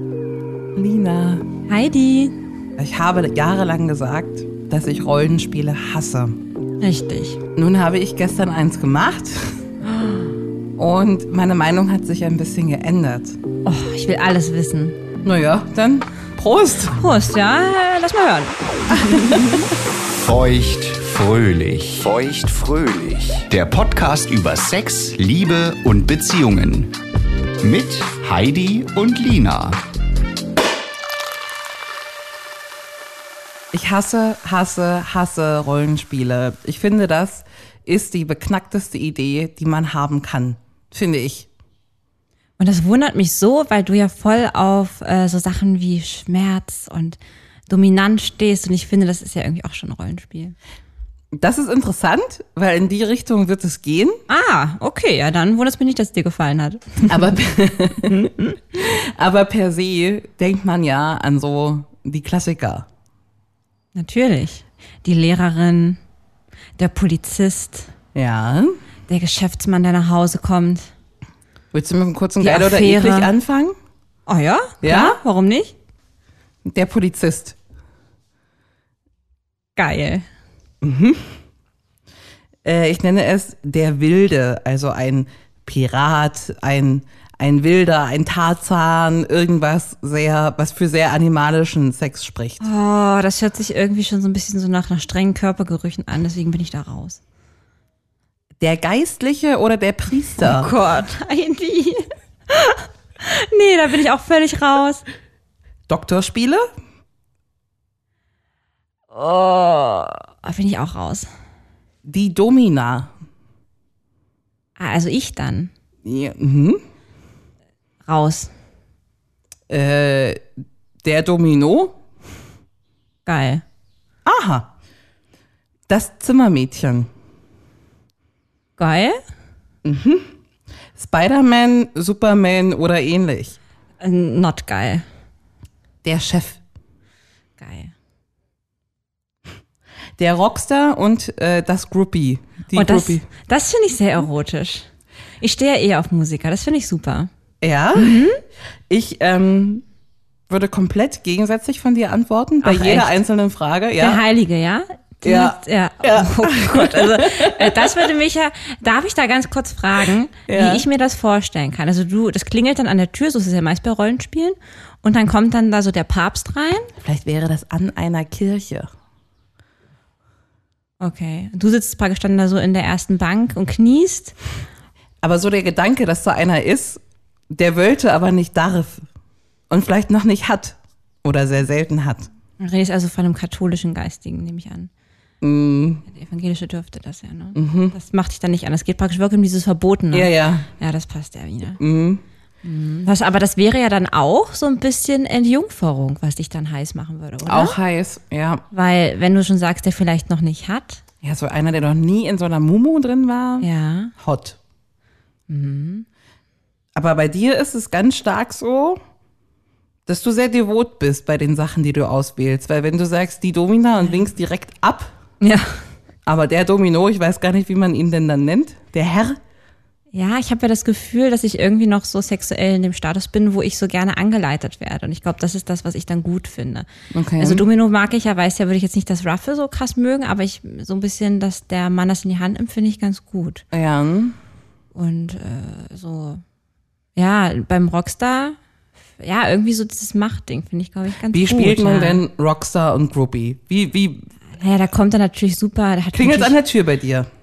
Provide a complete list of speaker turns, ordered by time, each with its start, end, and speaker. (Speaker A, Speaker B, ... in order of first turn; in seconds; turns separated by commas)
Speaker A: 0.7-1.5, Speaker B: 1.7-2.3, Speaker A: 2.8-6.4, Speaker B: 6.8-7.4, Speaker A: 7.5-9.6, Speaker A: 10.8-13.4, Speaker B: 13.6-15.0, Speaker A: 15.2-17.0, Speaker B: 16.9-19.4, Speaker A: 18.9-19.7, Speaker C: 20.1-26.9, Speaker C: 27.6-29.8, Speaker A: 33.7-41.5, Speaker B: 42.6-50.5, Speaker A: 51.4-54.2, Speaker B: 54.3-57.3, Speaker A: 57.1-62.9, Speaker B: 58.1-58.4, Speaker B: 63.9-66.0, Speaker B: 66.8-67.9, Speaker A: 68.1-68.8, Speaker B: 69.1-70.9, Speaker A: 71.7-73.7, Speaker B: 72.4-73.3, Speaker B: 74.3-75.7, Speaker A: 74.8-75.2, Speaker A: 76.6-77.5, Speaker B: 79.8-80.2, Speaker A: 80.8-81.3, Speaker A: 82.6-92.6, Speaker B: 92.6-97.2, Speaker A: 98.6-100.7, Speaker B: 100.4-105.0, Speaker A: 105.9-106.6, Speaker B: 109.1-111.3, Speaker A: 112.0-113.1, Speaker B: 114.8-115.7, Speaker A: 116.0-116.8, Speaker B: 118.0-118.5, Speaker A: 119.7-120.4, Speaker A: 121.0-122.0, Speaker B: 123.2-123.6, Speaker A: 124.2-124.7, Speaker A: 125.9-127.1, Speaker B: 128.8-129.2, Speaker A: 129.8-130.3, Speaker A: 130.9-133.6, Speaker B: 134.0-135.0, Speaker A: 136.0-136.6, Speaker B: 137.6-137.9, Speaker A: 140.2-143.2, Speaker B: 142.7-144.9, Speaker B: 145.4-147.3, Speaker A: 147.6-148.2, Speaker B: 147.9-148.4, Speaker A: 148.9-149.8, Speaker A: 150.5-154.2, Speaker B: 152.6-153.1, Speaker B: 154.0-166.9, Speaker A: 155.2-158.1, Speaker A: 160.5-160.8, Speaker A: 167.0-168.9, Speaker B: 171.0-174.3, Speaker A: 175.2-179.0, Speaker A: 179.7-182.3, Speaker B: 182.6-184.9, Speaker A: 185.4-186.1, Speaker B: 186.1-191.8, Speaker A: 187.5-187.9, Speaker A: 190.1-190.7, Speaker A: 191.8-192.2, Speaker B: 192.6-197.8, Speaker A: 197.4-198.6, Speaker B: 198.7-201.0, Speaker A: 201.2-203.7, Speaker B: 203.6-204.1, Speaker A: 204.2-204.6, Speaker B: 205.5-206.1, Speaker A: 206.9-209.0, Speaker A: 210.1-215.1, Speaker B: 215.4-215.8, Speaker A: 216.2-219.4, Speaker B: 220.1-226.9, Speaker A: 227.1-227.6, Speaker B: 227.4-233.6, Speaker A: 233.7-234.3, Speaker B: 234.9-236.4, Speaker B: 237.2-238.6, Speaker B: 239.2-242.2, Speaker A: 241.3-244.3, Speaker B: 244.5-246.5, Speaker A: 246.1-247.3